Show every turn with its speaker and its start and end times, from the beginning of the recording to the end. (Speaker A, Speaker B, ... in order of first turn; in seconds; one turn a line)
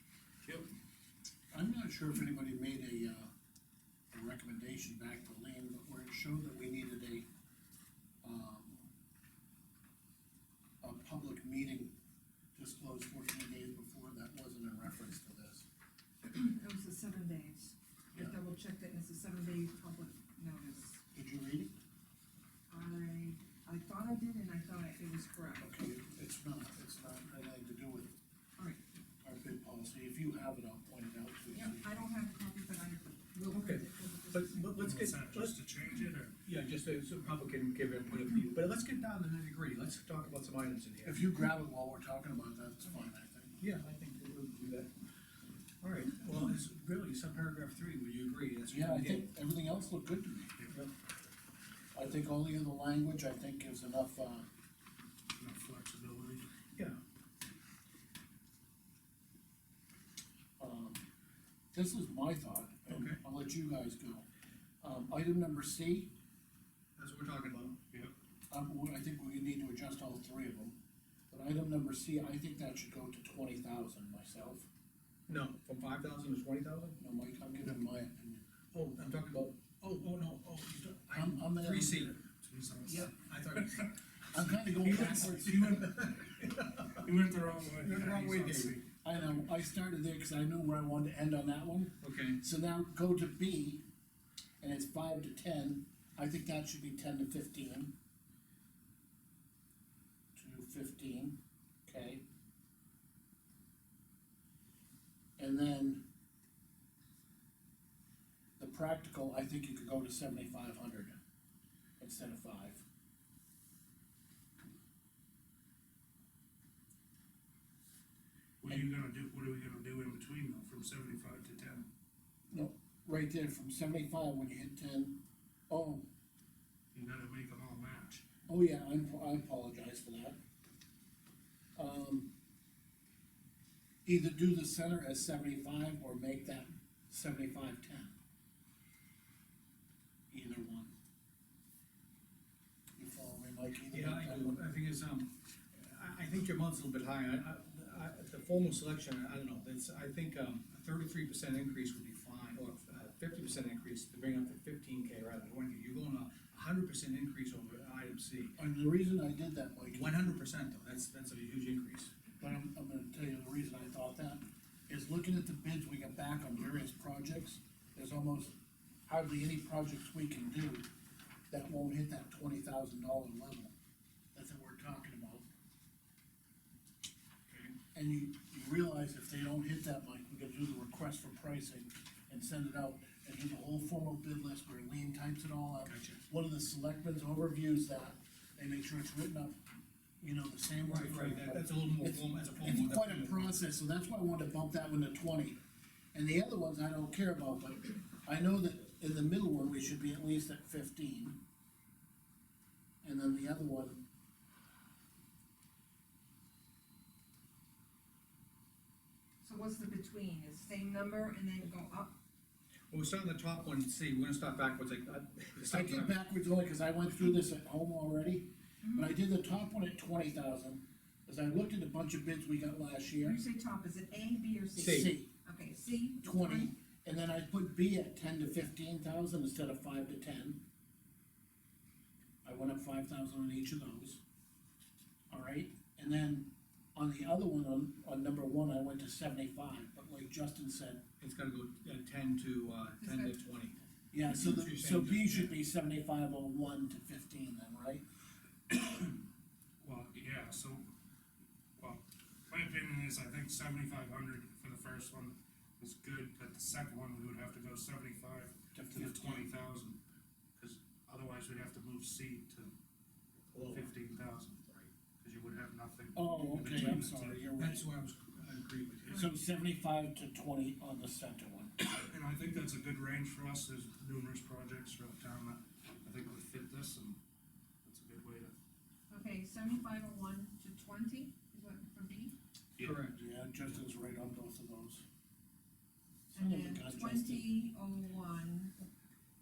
Speaker A: 0.4-0.7
Speaker B: 1.5-3.3
Speaker B: 4.1-7.2
Speaker B: 8.2-8.8
Speaker B: 10.8-11.9
Speaker B: 12.5-15.7
Speaker C: 16.3-21.0
Speaker B: 21.1-21.7
Speaker C: 22.7-25.7
Speaker B: 25.6-28.1
Speaker B: 29.2-31.9
Speaker C: 31.5-34.7
Speaker D: 33.5-35.5
Speaker A: 34.8-36.3
Speaker D: 36.4-41.2
Speaker B: 41.0-43.6
Speaker D: 43.6-44.9
Speaker D: 45.8-49.4
Speaker B: 48.7-50.5
Speaker B: 51.9-54.5
Speaker A: 55.4-56.5
Speaker D: 56.7-57.0
Speaker B: 60.6-61.0
Speaker B: 61.7-64.2
Speaker D: 62.9-63.2
Speaker B: 64.8-66.1
Speaker D: 67.0-67.8
Speaker B: 68.5-70.7
Speaker B: 71.3-74.7
Speaker D: 75.3-77.0
Speaker B: 77.0-78.5
Speaker D: 78.7-82.2
Speaker B: 81.1-82.2
Speaker A: 82.4-83.1
Speaker D: 83.1-87.0
Speaker B: 84.3-86.0
Speaker A: 85.3-85.8
Speaker A: 87.0-88.9
Speaker D: 87.7-88.8
Speaker B: 89.0-93.8
Speaker D: 92.0-92.4
Speaker B: 94.6-97.9
Speaker B: 100.3-102.2
Speaker B: 105.4-106.0
Speaker B: 108.6-111.2
Speaker B: 112.0-112.8
Speaker A: 118.6-121.9
Speaker B: 122.5-126.1
Speaker A: 126.9-128.2
Speaker B: 128.5-130.4
Speaker B: 131.8-132.3
Speaker B: 134.0-138.1
Speaker B: 140.3-140.9
Speaker B: 143.0-144.6
Speaker D: 143.9-158.6
Speaker B: 158.6-160.1
Speaker D: 159.9-162.1
Speaker B: 162.4-168.5
Speaker B: 169.1-170.9
Speaker B: 171.5-173.7
Speaker B: 174.3-175.4
Speaker D: 177.5-177.7
Speaker B: 177.9-189.6
Speaker D: 185.8-186.2
Speaker B: 190.2-195.6
Speaker D: 190.8-193.5
Speaker B: 196.1-201.4
Speaker B: 203.0-204.0
Speaker C: 209.4-212.2
Speaker D: 212.9-216.1
Speaker B: 215.7-223.4
Speaker C: 218.8-219.1
Speaker C: 223.2-226.7
Speaker D: 224.8-225.1
Speaker B: 224.8-225.3
Speaker B: 226.2-230.6
Speaker B: 232.4-234.2
Speaker B: 235.3-241.0
Speaker D: 241.2-245.6
Speaker C: 243.0-243.3
Speaker B: 244.1-248.0
Speaker A: 249.8-250.9
Speaker A: 251.8-260.0
Speaker B: 258.7-259.5
Speaker A: 260.6-262.8
Speaker D: 263.5-263.9
Speaker A: 263.6-267.4
Speaker B: 266.1-267.9
Speaker D: 266.7-267.1
Speaker D: 267.6-269.3
Speaker B: 269.1-271.8
Speaker A: 271.8-277.2
Speaker A: 277.8-278.5
Speaker C: 279.1-282.3
Speaker A: 282.8-283.0
Speaker D: 282.8-283.2
Speaker B: 283.1-285.0
Speaker C: 286.3-288.8
Speaker B: 286.3-287.4